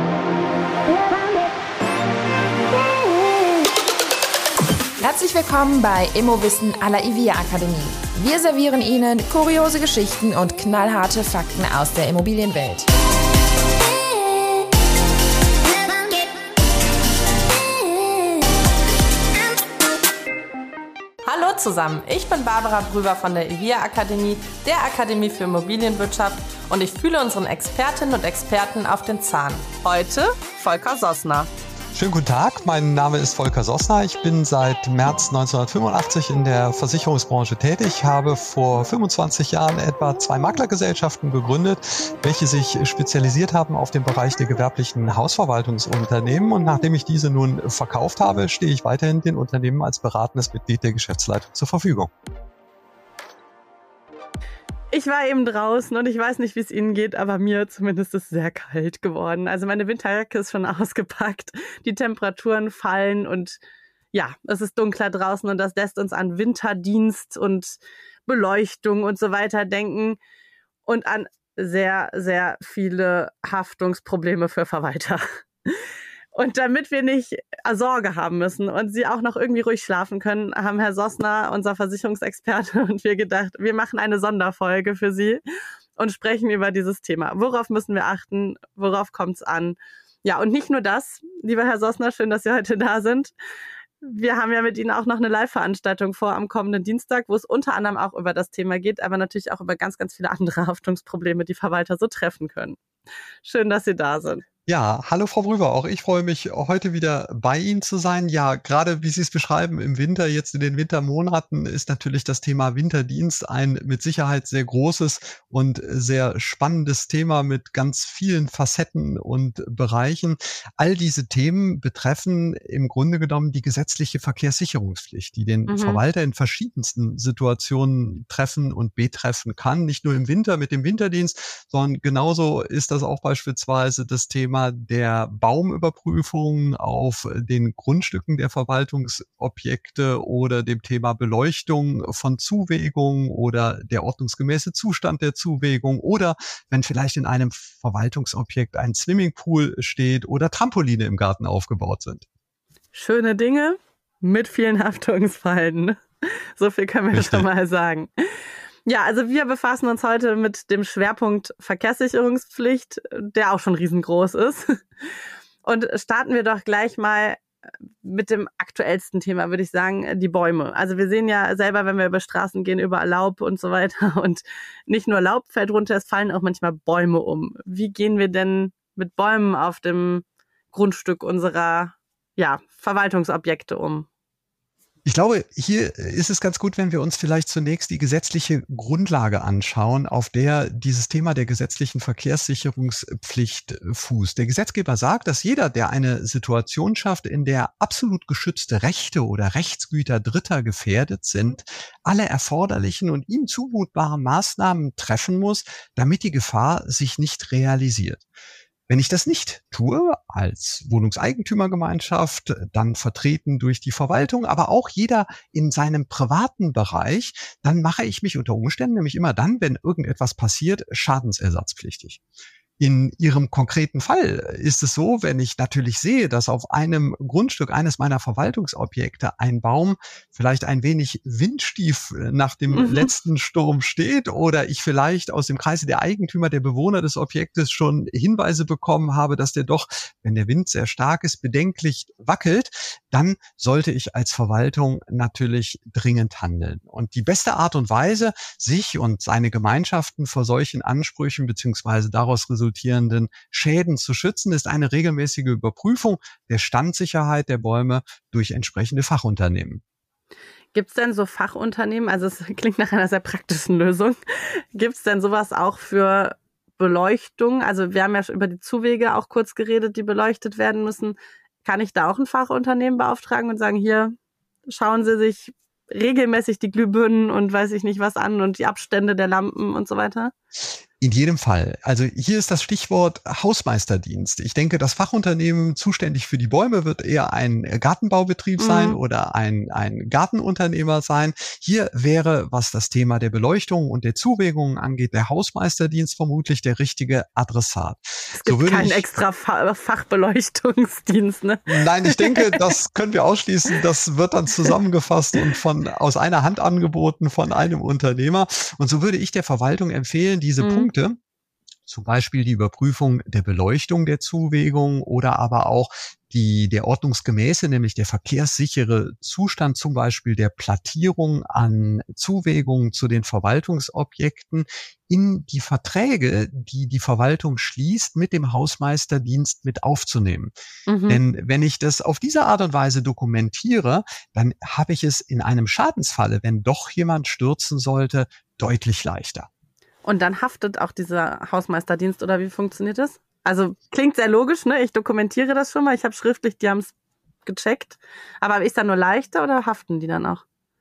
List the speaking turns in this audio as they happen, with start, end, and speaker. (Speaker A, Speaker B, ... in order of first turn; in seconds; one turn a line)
Speaker A: 5.0-12.9
Speaker B: 21.2-31.5
Speaker C: 31.9-52.1
Speaker B: 54.9-63.6
Speaker B: 64.1-70.2
Speaker B: 70.8-85.4
Speaker B: 86.0-93.3
Speaker B: 94.0-102.8
Speaker B: 103.4-104.4
Speaker C: 104.7-152.2
Speaker B: 125.7-126.0
Speaker B: 152.9-156.0
Speaker B: 156.6-158.1
Speaker C: 157.1-157.5
Speaker B: 158.8-164.8
Speaker B: 165.6-167.4
Speaker B: 168.0-184.1
Speaker C: 185.0-208.2
Speaker C: 208.9-222.2
Speaker C: 222.8-259.8
Speaker B: 232.7-233.1
Speaker B: 260.7-264.2
Speaker B: 264.7-274.1
Speaker B: 274.7-280.3
Speaker C: 281.0-299.0
Speaker B: 288.6-289.0
Speaker B: 298.3-302.6
Speaker C: 301.7-311.2
Speaker B: 310.6-310.9
Speaker C: 311.9-330.5
Speaker B: 330.9-331.2
Speaker C: 331.1-339.5
Speaker B: 340.0-346.9
Speaker B: 347.4-350.4